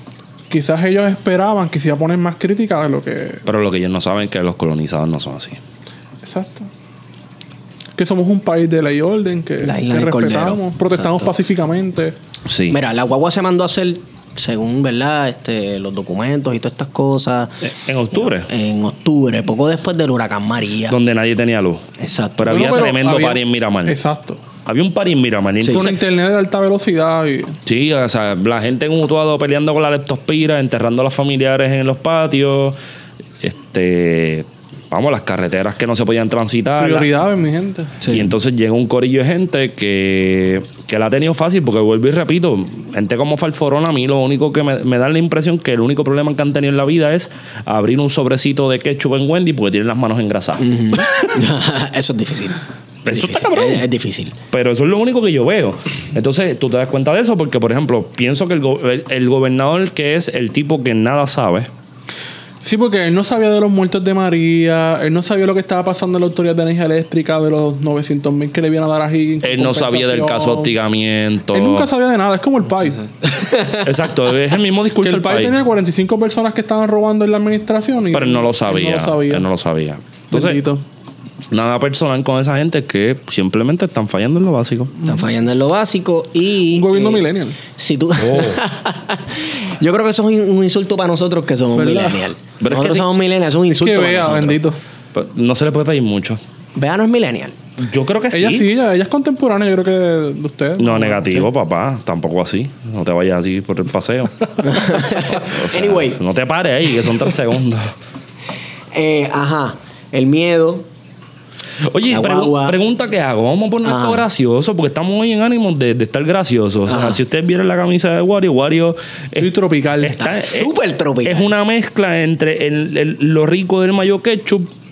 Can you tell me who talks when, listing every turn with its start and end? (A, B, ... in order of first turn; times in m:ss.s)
0:00.5-0:03.4 A
0:03.5-0:05.6 B
0:06.2-0:06.7 A
0:08.0-0:12.2 A
0:09.6-0:11.3 C
0:12.5-0:12.8 B
0:12.7-0:17.5 C
0:17.6-0:18.5 B
0:18.3-0:21.0 C
0:20.9-0:21.8 B
0:22.0-0:22.8 C
0:22.4-0:24.0 B
0:22.5-0:24.4 A
0:24.7-0:25.9 B
0:25.6-0:26.0 C
0:25.7-0:27.6 A
0:27.7-0:32.8 B
0:33.4-0:37.1 B
0:36.8-0:38.1 A
0:38.1-0:50.6 B
0:50.6-0:54.4 C
0:53.0-0:53.8 B
0:54.5-1:01.7 B
1:02.6-1:10.7 A
1:09.4-1:11.9 B
1:11.5-1:13.1 A
1:13.3-1:13.8 C
1:13.7-1:15.6 B
1:15.0-1:19.5 A
1:18.1-1:20.6 B
1:20.3-1:20.8 A
1:21.5-1:24.9 B
1:25.0-1:34.6 C
1:26.7-1:27.6 A
1:28.2-1:28.6 B
1:31.8-1:32.3 A
1:32.6-1:33.1 B
1:33.7-1:34.8 A
1:35.1-1:36.4 B
1:36.8-1:37.6 C
1:37.8-1:38.7 B
1:38.3-1:41.5 A
1:40.8-1:47.9 B
1:44.6-1:46.2 C
1:48.9-1:50.9 C
1:51.9-2:00.7 B
1:52.1-1:52.8 C
1:53.8-1:54.2 C
1:56.9-1:57.2 C
1:59.4-2:00.2 A
2:00.2-2:01.5 C
2:01.2-2:04.7 B